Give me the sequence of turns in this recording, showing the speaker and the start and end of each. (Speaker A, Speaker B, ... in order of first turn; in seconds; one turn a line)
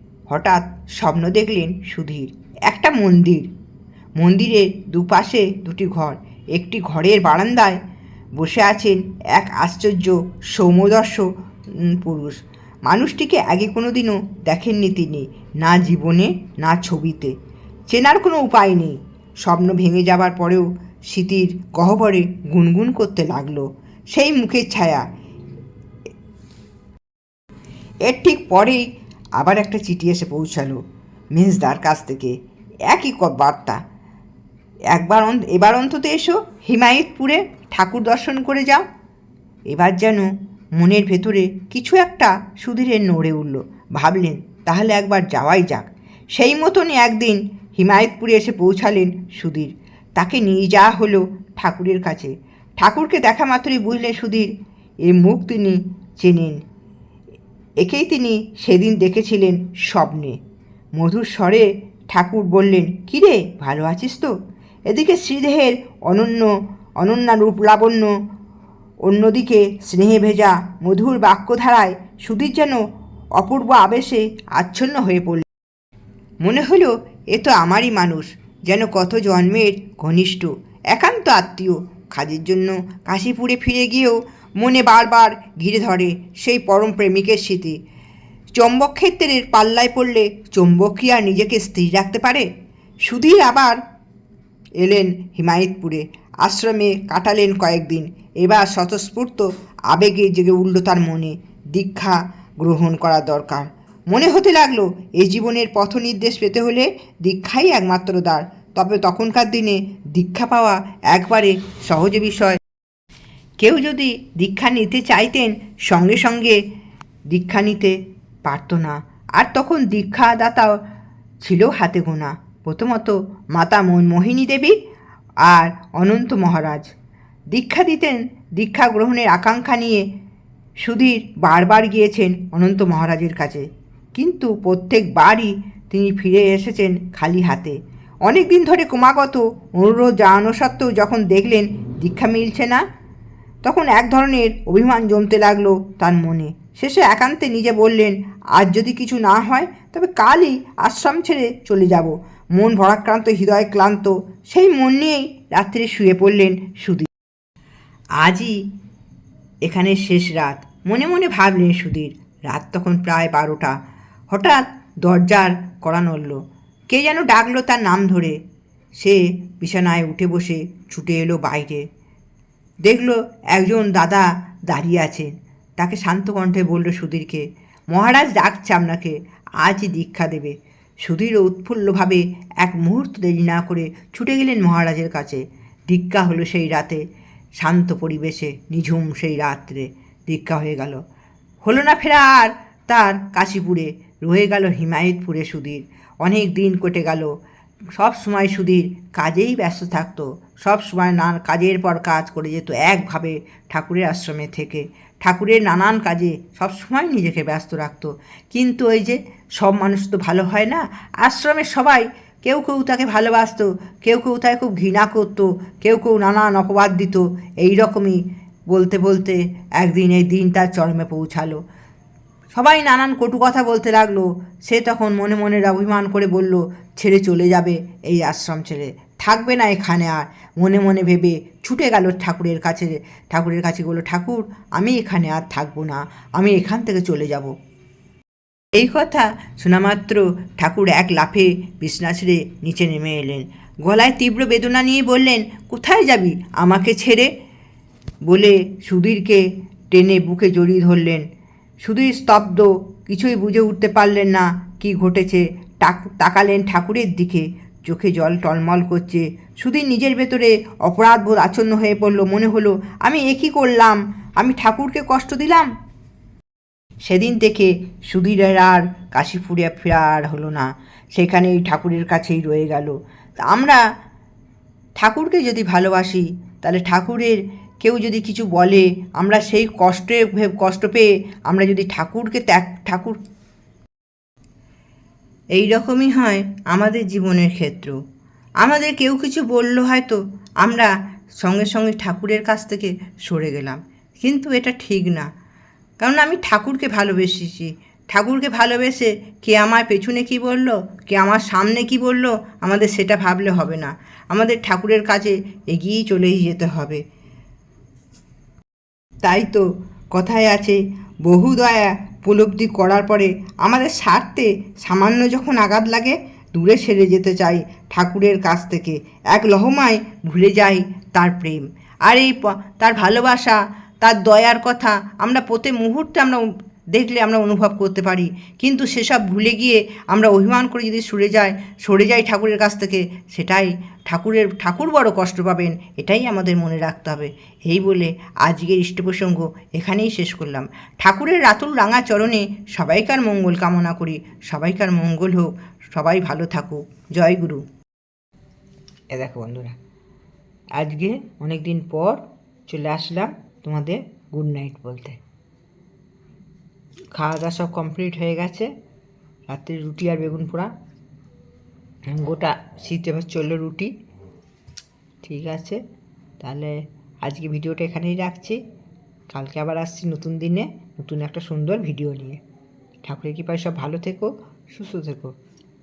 Speaker A: 0.3-3.5
Speaker A: 4.2-7.8
Speaker A: 8.4-17.4
Speaker A: 17.9-25.1
Speaker A: 28.1-30.8
Speaker A: 31.3-32.4
Speaker A: 32.9-33.8
Speaker A: 34.9-38.9
Speaker A: 39.7-54.5
Speaker A: 55.0-56.6
Speaker A: 57.8-60.4
Speaker A: 61.0-64.3
Speaker A: 64.9-68.1
Speaker A: 69.0-72.8
Speaker A: 73.4-75.5
Speaker A: 76.4-87.8
Speaker A: 88.5-92.5
Speaker A: 93.0-93.8
Speaker A: 94.8-112.6
Speaker A: 113.6-116.6
Speaker A: 117.3-120.8
Speaker A: 121.4-124.8
Speaker A: 125.4-126.9
Speaker A: 127.5-130.1
Speaker A: 130.8-142.8
Speaker A: 143.6-157.1
Speaker A: 158.2-158.6
Speaker A: 159.6-163.8
Speaker A: 164.3-168.4
Speaker A: 169.0-171.9
Speaker A: 172.8-187.0
Speaker A: 187.6-191.0
Speaker A: 191.6-197.3
Speaker A: 197.9-221.6
Speaker A: 222.5-237.5
Speaker A: 238.8-247.3
Speaker A: 248.2-251.2
Speaker A: 251.8-265.7
Speaker A: 267.1-273.8
Speaker A: 275.0-283.2
Speaker A: 285.5-288.0
Speaker A: 288.6-295.3
Speaker A: 296.0-307.0
Speaker A: 309.2-347.6
Speaker A: 349.1-349.8
Speaker A: 350.8-355.2
Speaker A: 357.1-358.7
Speaker A: 359.5-360.7
Speaker A: 362.1-363.9
Speaker A: 365.2-365.8
Speaker A: 366.4-368.6
Speaker A: 369.3-372.4
Speaker A: 373.1-375.3